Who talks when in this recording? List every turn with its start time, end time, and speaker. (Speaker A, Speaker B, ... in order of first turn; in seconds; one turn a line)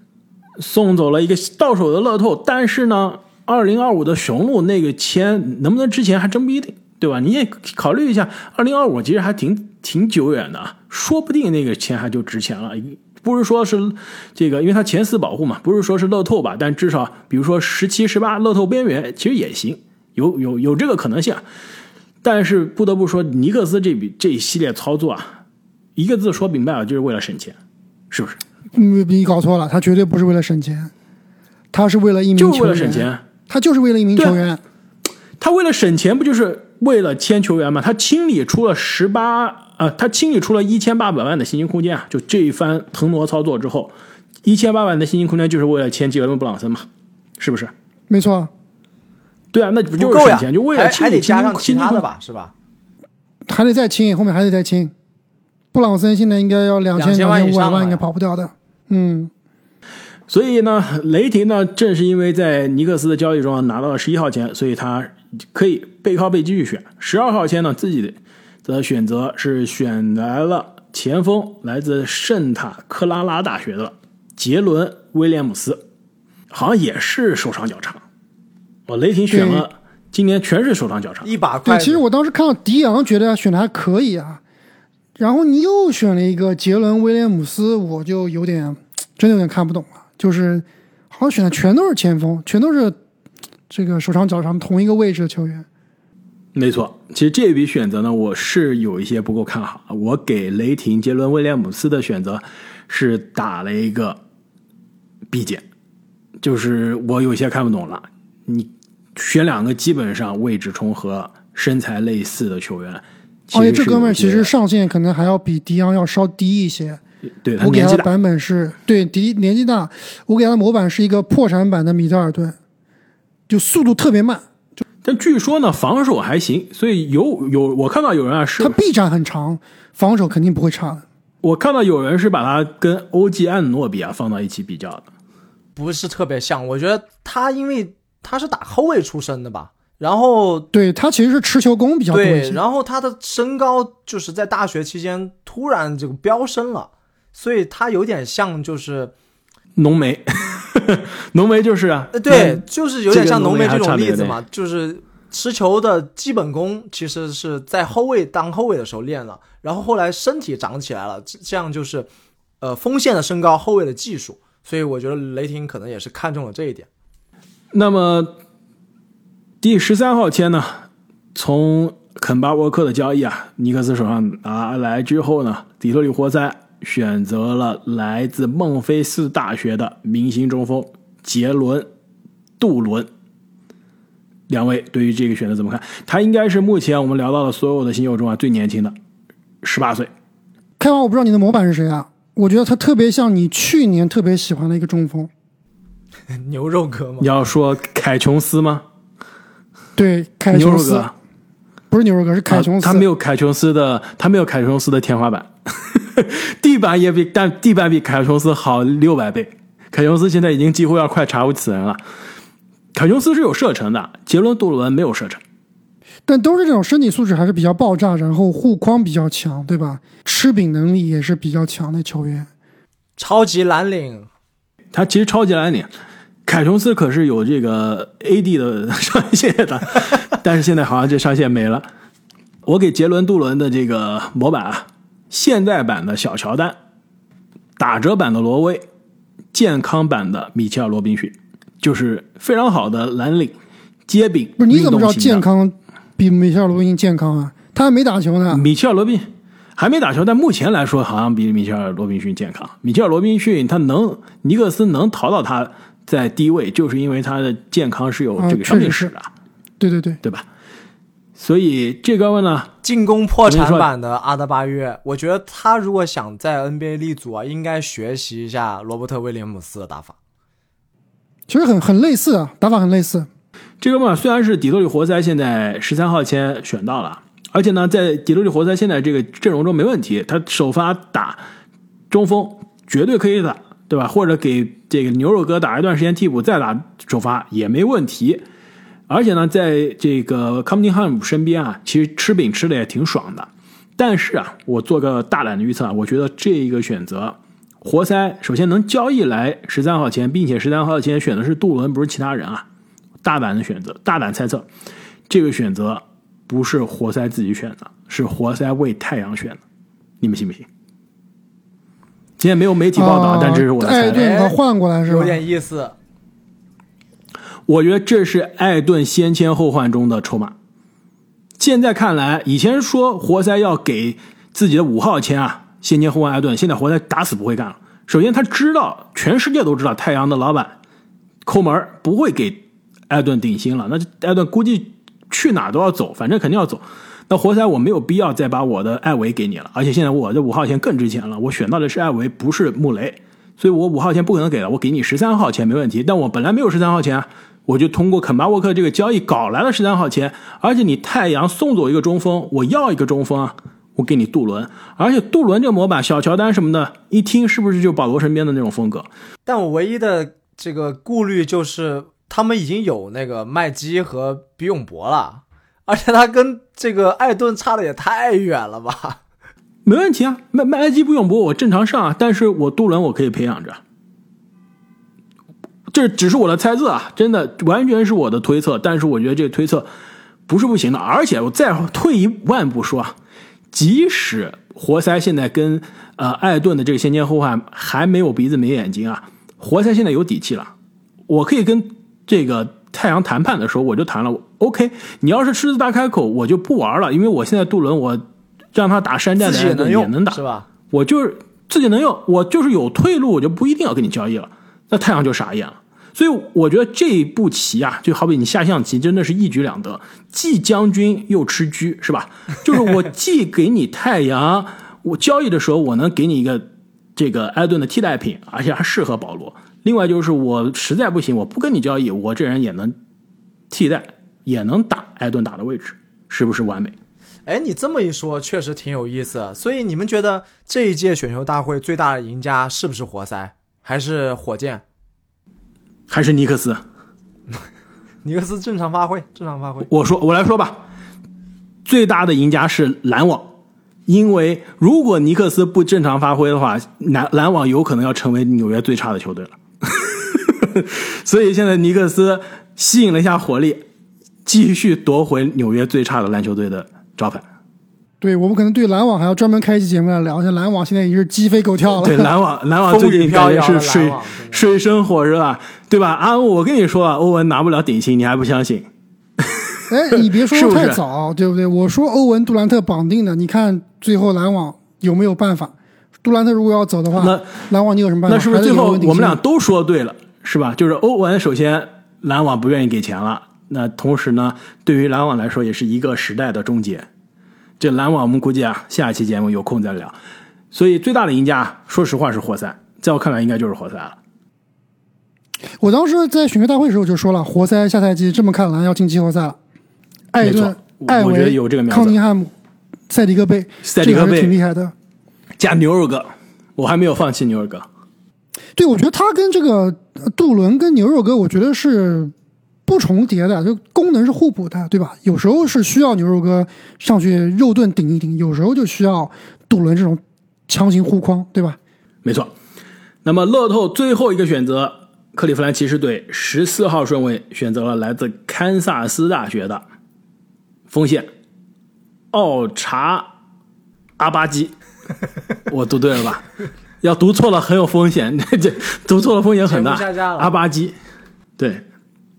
Speaker A: 0.6-21.4
Speaker A: 22.2-25.4
Speaker A: 26.0-27.6
Speaker A: 28.1-28.4
Speaker B: 28.7-30.9
Speaker B: 31.7-34.6
Speaker A: 32.4-33.2
Speaker A: 34.2-34.4
Speaker A: 35.4-46.9
Speaker A: 47.4-47.7
Speaker B: 48.1-48.5
Speaker A: 49.5-52.1
Speaker C: 50.0-52.5
Speaker B: 53.5-54.9
Speaker B: 55.7-59.3
Speaker C: 57.0-58.0
Speaker A: 60.3-75.8
Speaker A: 76.5-78.0
Speaker A: 78.9-81.3
Speaker B: 79.3-79.7
Speaker C: 81.2-82.0
Speaker B: 81.7-84.4
Speaker B: 85.2-93.0
Speaker B: 93.7-95.7
Speaker A: 96.5-104.2
Speaker A: 105.3-105.6
Speaker A: 106.4-114.5
Speaker B: 113.5-117.0
Speaker A: 117.4-118.1
Speaker B: 117.6-122.6
Speaker B: 123.5-124.5
Speaker A: 125.0-128.8
Speaker B: 128.6-131.1
Speaker A: 131.4-135.1
Speaker C: 135.8-140.7
Speaker B: 140.7-142.6
Speaker C: 142.1-149.1
Speaker A: 149.8-154.4
Speaker C: 152.1-162.1
Speaker C: 162.6-166.9
Speaker A: 167.7-168.3
Speaker A: 169.6-181.9
Speaker A: 182.6-183.1
Speaker A: 184.5-188.9
Speaker A: 189.6-190.1
Speaker B: 190.8-195.3
Speaker C: 196.3-197.3
Speaker A: 197.2-198.8
Speaker B: 200.0-201.1
Speaker A: 200.5-201.1
Speaker B: 201.9-203.1
Speaker A: 202.5-212.0
Speaker A: 212.9-215.4
Speaker B: 216.3-222.5
Speaker C: 223.2-224.3
Speaker A: 224.9-225.9
Speaker A: 226.5-231.9
Speaker A: 232.7-236.8
Speaker A: 237.8-238.8
Speaker A: 239.5-243.6
Speaker A: 244.1-245.4
Speaker B: 244.6-248.6
Speaker A: 248.5-259.3
Speaker B: 258.4-259.1
Speaker B: 259.8-260.2
Speaker A: 261.4-262.7
Speaker C: 262.8-270.2
Speaker A: 263.5-263.9
Speaker B: 271.5-273.3
Speaker A: 273.8-281.4
Speaker A: 282.1-288.4
Speaker A: 289.1-302.7
Speaker A: 303.2-304.7
Speaker A: 305.3-309.6
Speaker A: 310.2-310.7
Speaker A: 312.4-314.3
Speaker B: 312.9-315.4
Speaker C: 314.1-315.9
Speaker A: 317.7-320.6
Speaker A: 321.6-330.8
Speaker A: 331.5-359.1
Speaker C: 359.5-369.2
Speaker A: 369.9-373.8
Speaker A: 375.9-379.9
Speaker A: 380.5-383.1
Speaker A: 383.7-390.7
Speaker A: 391.3-400.4
Speaker C: 399.4-400.7
Speaker A: 400.9-422.9
Speaker A: 423.7-426.9
Speaker C: 427.5-434.8
Speaker A: 436.1-436.8
Speaker C: 438.2-439.9
Speaker A: 439.9-440.9
Speaker A: 441.9-443.5
Speaker A: 444.1-453.8
Speaker A: 454.4-457.4
Speaker B: 458.2-462.3
Speaker A: 462.0-468.9
Speaker C: 462.9-464.8
Speaker A: 469.4-471.0
Speaker B: 469.9-479.4
Speaker A: 477.1-477.7
Speaker A: 478.3-487.1
Speaker A: 487.8-490.2
Speaker A: 490.7-494.2
Speaker B: 495.8-499.6
Speaker B: 500.3-502.5
Speaker A: 500.4-502.2
Speaker B: 503.1-504.9
Speaker A: 503.8-504.6
Speaker A: 505.6-507.9
Speaker B: 508.8-512.3
Speaker B: 512.9-521.8
Speaker A: 522.2-522.5
Speaker A: 523.2-529.8
Speaker A: 530.9-531.3
Speaker A: 532.3-533.3
Speaker A: 534.2-534.7
Speaker A: 535.7-541.0
Speaker C: 539.7-540.5
Speaker A: 541.6-541.8